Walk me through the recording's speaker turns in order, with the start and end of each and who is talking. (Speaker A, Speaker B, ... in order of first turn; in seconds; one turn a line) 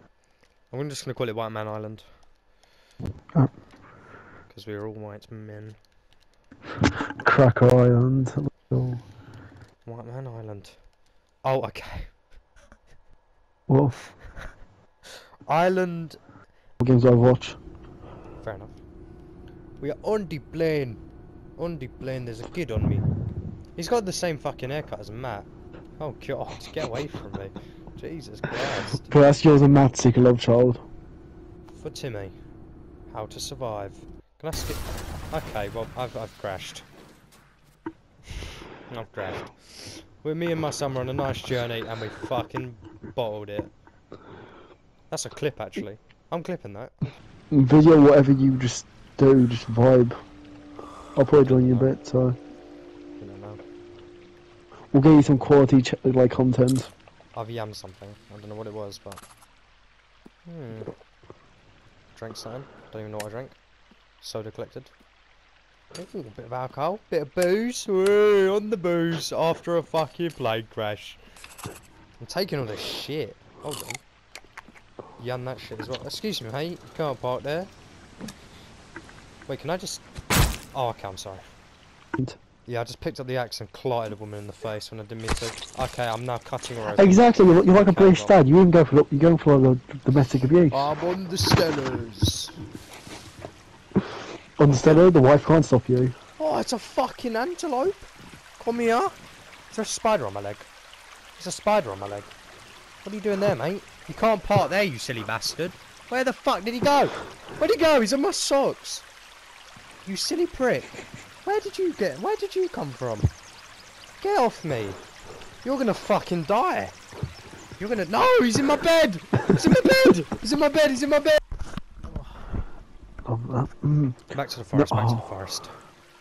Speaker A: 0.7-2.0
Speaker A: 4.5-5.8
Speaker B: 7.2-9.0
Speaker A: 9.8-10.8
Speaker A: 11.4-12.1
Speaker B: 13.7-14.1
Speaker A: 15.5-16.2
Speaker B: 16.8-17.6
Speaker A: 18.4-18.8
Speaker A: 19.8-21.0
Speaker A: 21.6-23.1
Speaker A: 23.8-29.1
Speaker B: 29.0-30.8
Speaker A: 31.7-32.3
Speaker A: 33.1-36.8
Speaker A: 38.9-43.7
Speaker A: 45.1-47.0
Speaker B: 47.5-50.2
Speaker B: 51.1-52.4
Speaker A: 51.5-51.9
Speaker A: 53.2-53.6
Speaker B: 54.9-56.9
Speaker A: 57.3-59.2
Speaker A: 60.5-60.9
Speaker A: 62.1-63.5
Speaker A: 64.2-64.9
Speaker A: 65.9-71.2
Speaker A: 72.2-74.0
Speaker A: 75.2-77.7
Speaker A: 79.5-80.0
Speaker A: 80.7-81.4
Speaker A: 82.7-88.3
Speaker B: 86.9-90.8
Speaker A: 90.7-92.5
Speaker B: 94.6-96.1
Speaker A: 96.4-99.2
Speaker A: 99.7-100.7
Speaker A: 101.4-102.3
Speaker A: 103.0-109.0
Speaker A: 110.0-110.9
Speaker A: 111.4-113.3
Speaker A: 114.2-115.0
Speaker A: 115.6-116.9
Speaker A: 117.8-121.4
Speaker B: 123.2-125.2
Speaker A: 124.3-125.7